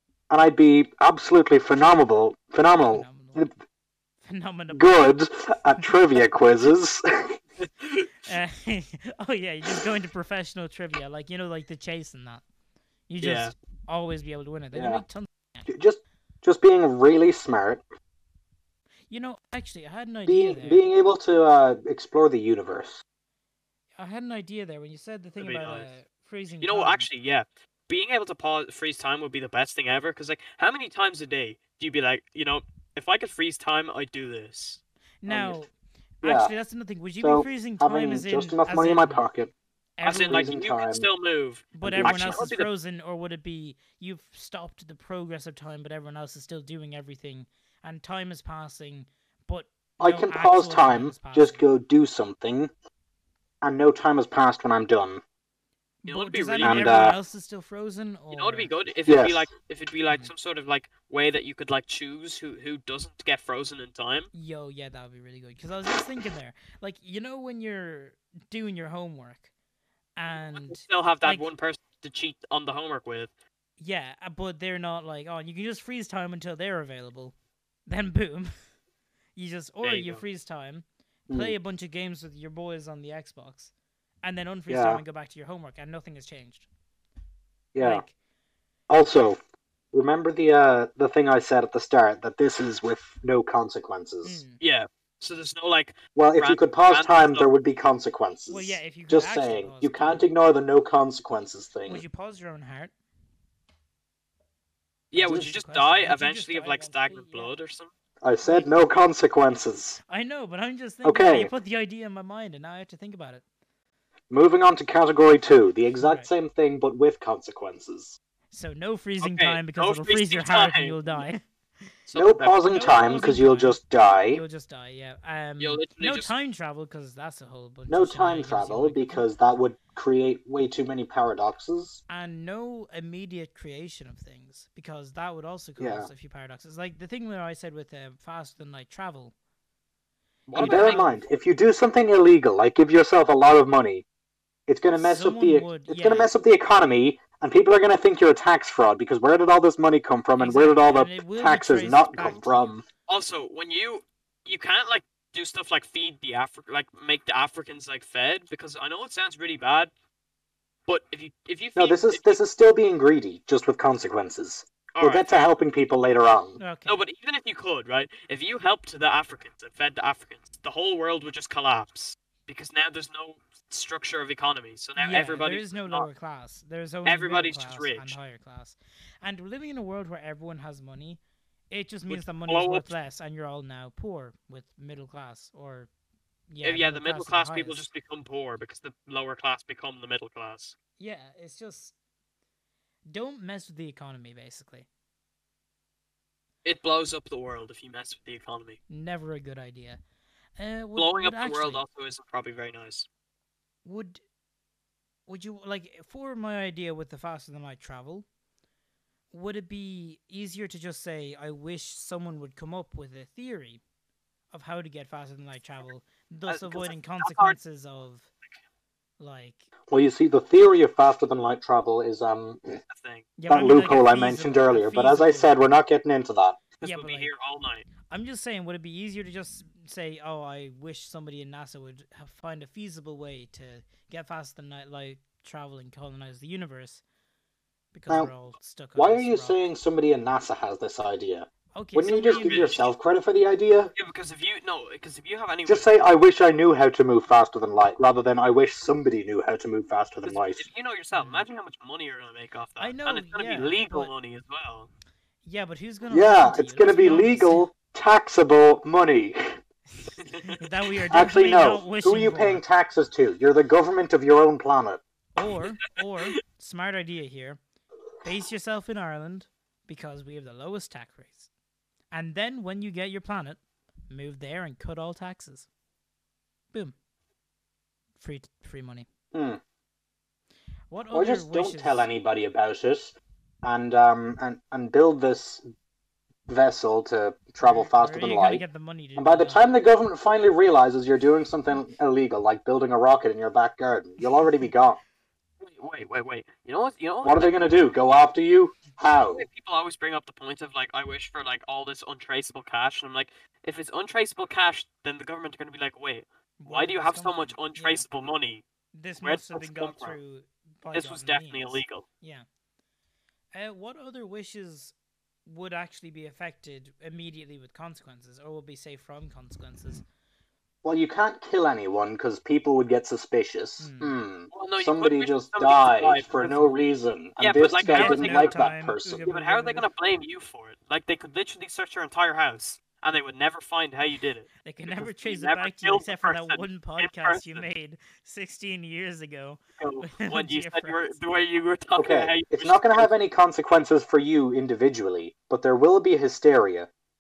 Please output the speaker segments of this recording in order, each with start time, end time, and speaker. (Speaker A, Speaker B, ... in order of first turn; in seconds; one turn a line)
Speaker A: 0.3-3.5
Speaker B: 2.9-3.5
Speaker B: 4.2-5.1
Speaker A: 4.7-7.4
Speaker C: 7.6-8.1
Speaker B: 8.2-12.4
Speaker B: 13.1-15.7
Speaker C: 13.2-13.5
Speaker A: 14.7-15.0
Speaker A: 15.7-17.8
Speaker B: 19.1-20.8
Speaker A: 20.3-23.0
Speaker B: 24.0-27.1
Speaker C: 25.4-25.9
Speaker C: 26.6-34.8
Speaker B: 35.2-39.2
Speaker A: 35.3-35.6
Speaker A: 36.2-36.5
Speaker A: 37.2-39.5
Speaker B: 40.0-40.5
Speaker C: 40.0-42.7
Speaker A: 40.3-41.1
Speaker B: 41.7-51.7
Speaker A: 41.8-42.5
Speaker A: 50.0-52.7
Speaker A: 53.6-55.2
Speaker B: 56.0-58.7
Speaker C: 56.1-57.2
Speaker A: 56.6-57.2
Speaker C: 58.3-64.3
Speaker A: 59.1-59.5
Speaker B: 64.3-69.5
Speaker B: 70.2-71.5
Speaker C: 70.5-73.3
Speaker B: 73.8-77.3
Speaker B: 77.9-78.5
Speaker B: 79.4-83.7
Speaker C: 79.8-80.2
Speaker A: 81.3-81.5
Speaker B: 84.2-86.7
Speaker A: 84.7-85.0
Speaker A: 87.7-88.0
Speaker B: 87.8-88.1
Speaker A: 88.9-89.4
Speaker A: 89.9-94.4
Speaker B: 94.2-94.6
Speaker C: 94.6-97.5
Speaker A: 96.2-102.0
Speaker B: 98.5-100.3
Speaker B: 101.9-102.9
Speaker C: 105.1-107.9
Speaker B: 105.2-107.5
Speaker A: 108.2-110.0
Speaker B: 108.4-108.7
Speaker B: 110.1-113.4
Speaker A: 111.0-111.5
Speaker A: 114.3-118.2
Speaker B: 116.0-116.3
Speaker B: 118.5-121.4
Speaker C: 119.2-121.2
Speaker C: 122.1-123.0
Speaker A: 122.2-124.4
Speaker B: 122.6-129.2
Speaker C: 125.6-126.3
Speaker A: 127.9-132.0
Speaker B: 132.1-139.3
Speaker A: 135.8-136.1
Speaker C: 140.5-141.1
Speaker B: 140.6-141.2
Speaker A: 140.6-144.1
Speaker A: 144.7-152.8
Speaker B: 145.0-146.3
Speaker B: 150.4-152.7
Speaker C: 153.1-159.9
Speaker C: 160.9-162.4
Speaker A: 161.8-166.6
Speaker C: 164.9-165.4
Speaker B: 166.6-167.0
Speaker C: 166.9-176.1
Speaker B: 175.0-185.9
Speaker C: 177.1-178.2
Speaker C: 182.1-182.9
Speaker B: 186.5-187.9
Speaker C: 186.6-190.8
Speaker B: 191.0-191.9
Speaker B: 193.1-194.9
Speaker C: 196.6-198.8
Speaker B: 198.9-200.0
Speaker B: 200.6-201.8
Speaker C: 201.0-203.1
Speaker B: 203.8-204.2
Speaker B: 205.3-208.3
Speaker B: 209.3-213.8
Speaker B: 214.5-218.3
Speaker C: 216.5-217.6
Speaker B: 219.2-219.7
Speaker A: 219.9-222.8
Speaker C: 222.9-223.3
Speaker B: 223.4-225.5
Speaker A: 223.5-226.6
Speaker C: 226.8-227.9
Speaker B: 226.8-227.3
Speaker B: 228.1-237.0
Speaker B: 237.9-239.6
Speaker A: 239.0-243.9
Speaker B: 241.7-242.8
Speaker C: 242.3-242.8
Speaker C: 243.9-246.0
Speaker A: 245.7-250.7
Speaker C: 250.2-254.9
Speaker B: 251.1-251.4
Speaker B: 252.8-254.1
Speaker B: 255.4-257.7
Speaker A: 256.1-259.6
Speaker B: 260.0-262.6
Speaker C: 260.2-260.6
Speaker A: 261.1-265.0
Speaker B: 265.4-267.6
Speaker B: 268.2-271.5
Speaker B: 272.1-275.7
Speaker B: 278.2-279.1
Speaker A: 279.3-279.6
Speaker B: 280.9-282.1
Speaker A: 281.1-285.6
Speaker A: 286.5-288.6
Speaker B: 287.6-289.6
Speaker A: 289.2-295.0
Speaker C: 295.6-297.8
Speaker A: 297.2-299.4
Speaker C: 299.3-308.6
Speaker B: 306.6-308.0
Speaker B: 308.9-312.5
Speaker C: 309.2-310.2
Speaker C: 310.9-312.1
Speaker B: 313.5-314.9
Speaker B: 315.5-320.0
Speaker A: 320.8-329.2
Speaker B: 323.8-324.1
Speaker C: 324.5-326.6
Speaker B: 326.4-326.7
Speaker C: 327.4-328.7
Speaker B: 327.9-329.9
Speaker C: 329.3-337.7
Speaker B: 334.6-341.1
Speaker C: 339.8-343.1
Speaker A: 342.0-346.9